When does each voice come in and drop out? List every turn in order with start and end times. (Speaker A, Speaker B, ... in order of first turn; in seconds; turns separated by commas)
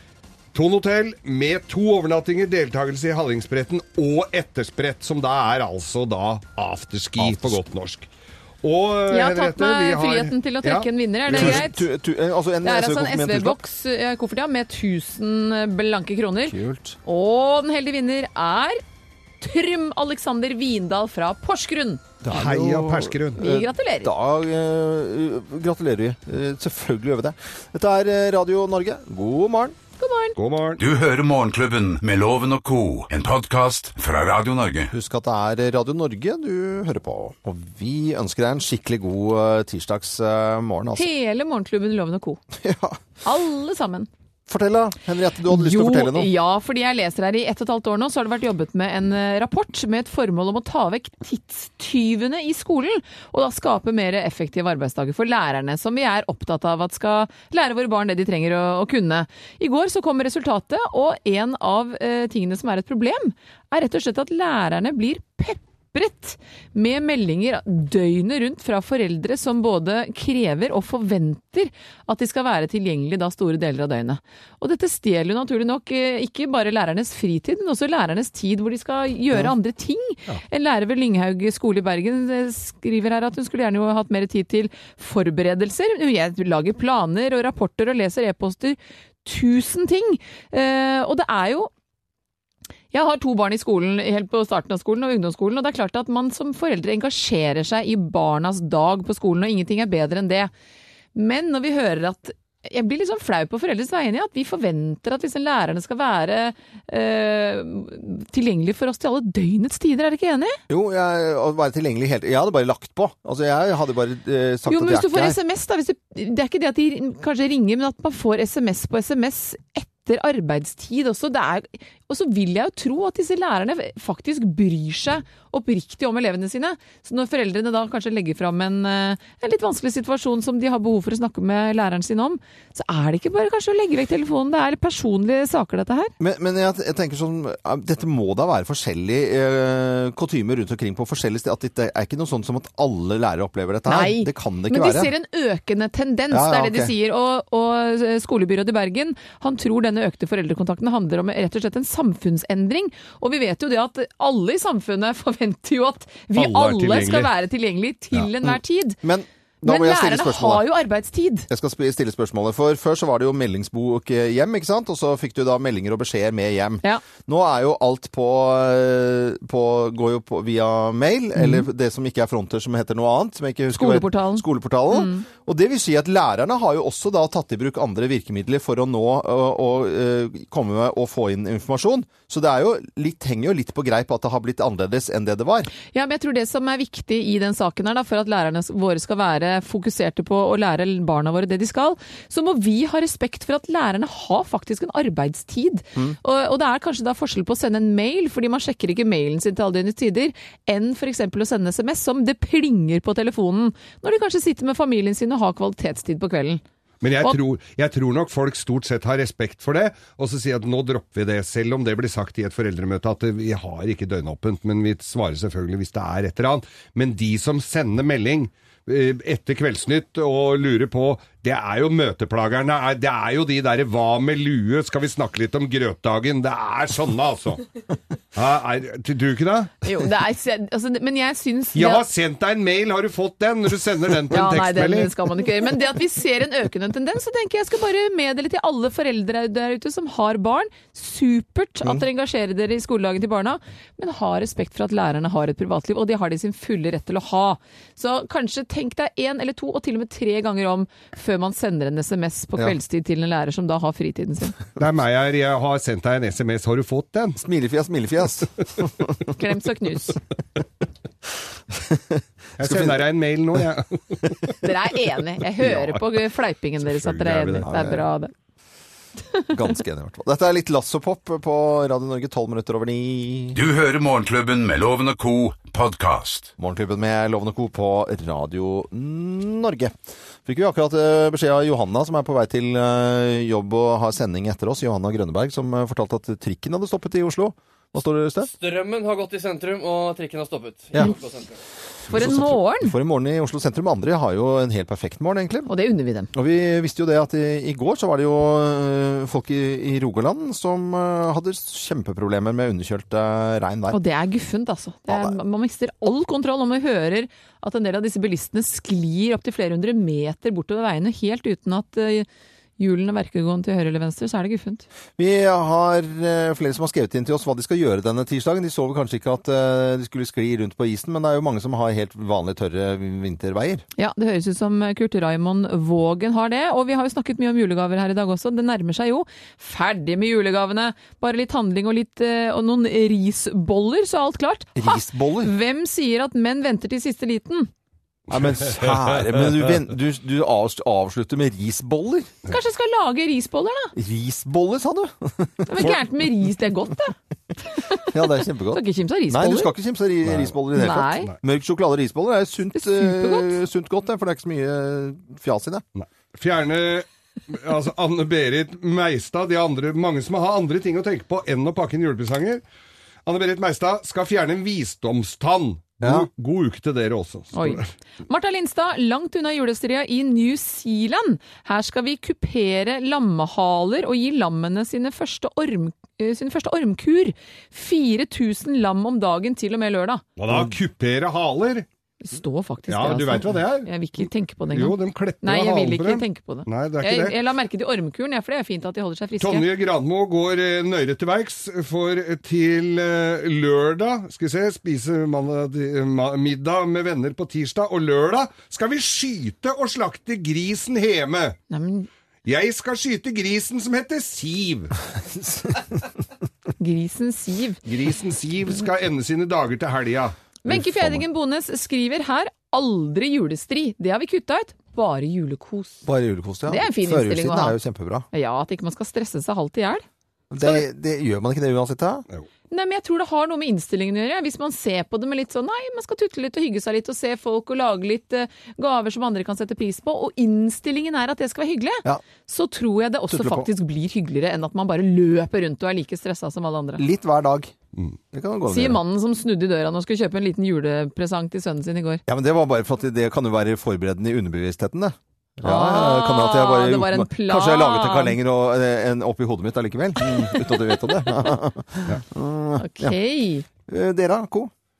Speaker A: 0.5-8.1, Speaker B: 7.2-7.6, Speaker A: 8.6-11.7, Speaker C: 9.1-11.8, Speaker B: 11.3-13.6, Speaker C: 12.6-18.8, Speaker B: 16.4-17.0, Speaker C: 19.4-22.0, Speaker B: 22.2-29.8, Speaker A: 22.3-23.4, Speaker C: 23.4-24.1, Speaker C: 30.0-30.4, Speaker A: 30.4-30.8, Speaker D: 30.8-34.9, Speaker B: 34.9-41.1, Speaker C: 40.9-42.4, Speaker B: 42.5-43.0, Speaker C: 43.2-44.1, Speaker B: 44.5-46.3, Speaker C: 45.5-91.7, Speaker C: 92.9-100.5, Speaker C: 101.1-110.6, Speaker B: 110.7-115.4, Speaker C: 114.7-136.1, Speaker B: 136.2-145.1, Speaker C: 143.9-159.0, Speaker B: 146.3-146.9, Speaker A: 156.3-157.3, Speaker B: 158.3-160.6, Speaker C: 159.6-161.5, Speaker B: 161.5-185.7, Speaker C: 171.3-171.7, Speaker C: 173.7-175.2, Speaker C: 185.9-206.6, Speaker A: 207.0-227.6, Speaker A: 228.3-229.7, Speaker C: 229.8-232.0, Speaker A: 231.7-235.1, Speaker C: 234.3-254.6, Speaker A: 254.8-257.4, Speaker B: 257.4-259.2, Speaker C: 259.3-260.2, Speaker B: 261.7-263.0, Speaker A: 262.6-264.6, Speaker C: 264.6-268.3, Speaker A: 265.6-266.1, Speaker A: 266.8-267.7, Speaker B: 267.6-268.1, Speaker B: 269.5-273.6, Speaker D: 273.5-276.5, Speaker B: 276.6-288.5, Speaker E: 288.5-291.6, Speaker B: 292.1-295.7, Speaker C: 292.1-292.9, Speaker C: 295.7-296.3, Speaker B: 296.3-304.0, Speaker C: 303.9-312.2, Speaker B: 305.1-305.3, Speaker C: 312.8-314.9, Speaker B: 315.2-323.8, Speaker C: 324.0-337.7, Speaker B: 334.8-335.5, Speaker B: 338.3-342.4, Speaker C: 342.5-343.9, Speaker B: 343.9-346.0, Speaker C: 345.7-349.7, Speaker B: 348.0-355.8, Speaker A: 350.2-350.5, Speaker C: 350.7-351.3, Speaker C: 352.7-353.5, Speaker A: 355.9-362.6, Speaker A: 363.2-367.9, Speaker B: 366.0-366.3, Speaker C: 367.5-380.4, Speaker A: 380.4-381.9, Speaker C: 382.2-389.6, Speaker A: 382.9-387.4, Speaker A: 389.4-401.6, Speaker C: 401.7-402.1, Speaker A: 402.4-404.9, Speaker B: 405.3-406.0, Speaker C: 406.8-407.8, Speaker A: 407.9-410.3, Speaker C: 410.6-416.1, Speaker B: 416.0-418.2, Speaker C: 416.7-417.8, Speaker C: 418.3-420.0, Speaker B: 420.5-422.2, Speaker C: 422.7-437.0, Speaker B: 433.3-433.7, Speaker B: 437.0-437.7, Speaker B: 438.3-439.0, Speaker C: 438.7-442.2, Speaker B: 442.3-453.2, Speaker C: 445.6-448.4, Speaker C: 450.3-450.9, Speaker C: 452.8-453.6, Speaker B: 453.9-454.7